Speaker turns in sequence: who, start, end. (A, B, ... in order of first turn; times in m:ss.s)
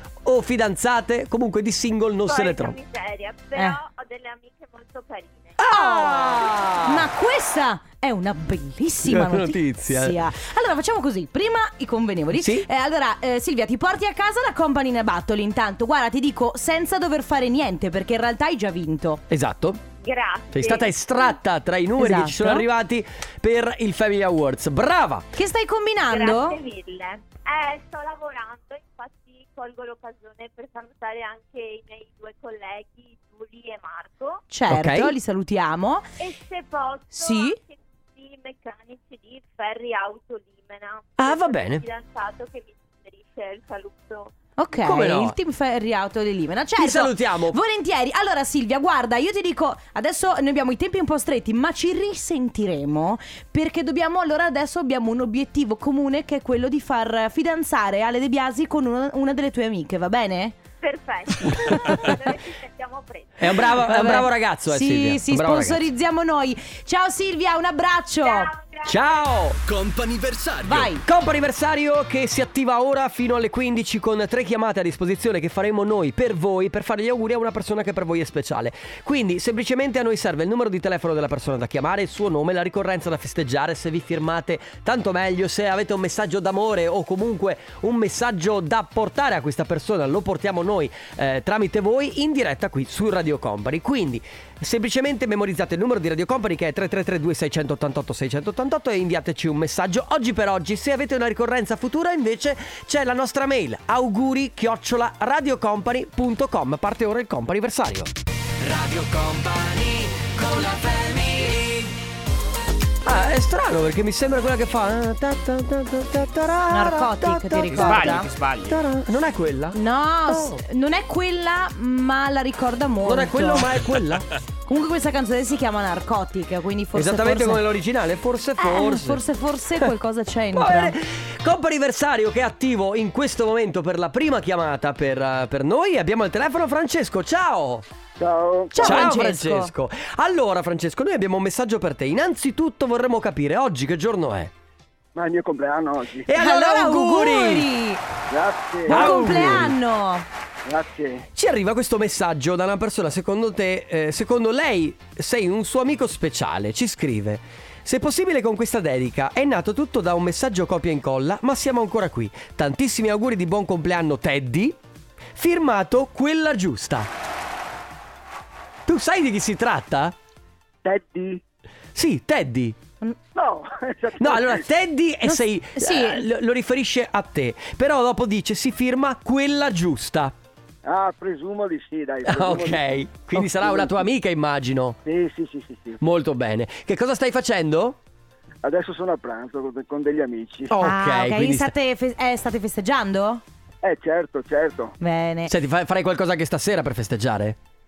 0:00.2-0:02.8 A
0:02.3-0:05.6 B
0:05.6-0:07.1 A
0:05.7-0:19.2 C
0:09.0-0:10.2 A
0:12.3-0:12.7 A
0:19.3-0:19.8 A
0:20.0-0:21.1 B
0:20.5-0:25.3 A
0:22.0-0:22.6 C
0:25.4-0:26.6 C
0:26.1-0:34.4 B
0:34.5-0:36.1 C
0:34.7-0:35.1 A
0:36.2-0:44.3 B
0:37.2-0:37.6 C
0:41.2-0:41.8 A
0:44.6-1:00.6 C
0:44.8-0:45.4 A
0:46.8-0:47.6 A
1:00.8-1:03.6 B
1:01.5-1:02.1 A
1:03.4-1:05.9 A
1:03.8-1:08.5 C
1:08.2-1:09.3 B
1:08.8-1:09.6 A
1:09.7-1:10.9 D
1:10.6-1:11.0 C
1:10.7-1:51.9 A
1:53.0-2:00.6 A
1:56.7-1:58.3 C
1:57.7-1:58.7 D
1:59.7-2:03.7 C
2:03.0-2:04.3 A
2:04.7-2:07.6 C
2:07.0-2:09.2 A
2:08.6-2:11.0 C
2:10.5-2:17.8 A
2:18.2-2:19.1 E
2:18.7-2:19.7 C
2:18.8-2:24.5 A
2:25.2-2:26.3 E
2:26.2-2:27.7 A
2:26.4-2:28.0 C
2:28.3-2:29.6 E
2:28.9-2:29.8 A
2:28.9-2:30.3 C
2:30.7-2:31.3 E
2:31.4-2:44.8 A
2:45.4-2:47.1 A
2:48.9-2:50.2 A
2:50.8-2:51.4 E
2:52.0-2:52.8 A
2:53.4-2:54.6 E
2:54.2-3:00.4 A
2:55.2-2:56.2 C
3:00.8-3:02.9 E
3:02.2-3:05.0 A
3:05.0-3:06.0 E
3:06.0-3:08.0 A
3:08.6-3:10.7 E
3:10.7-3:11.7 A
3:10.8-3:13.4 C
3:13.8-3:15.0 E
3:15.0-3:15.5 C
3:15.5-3:17.6 A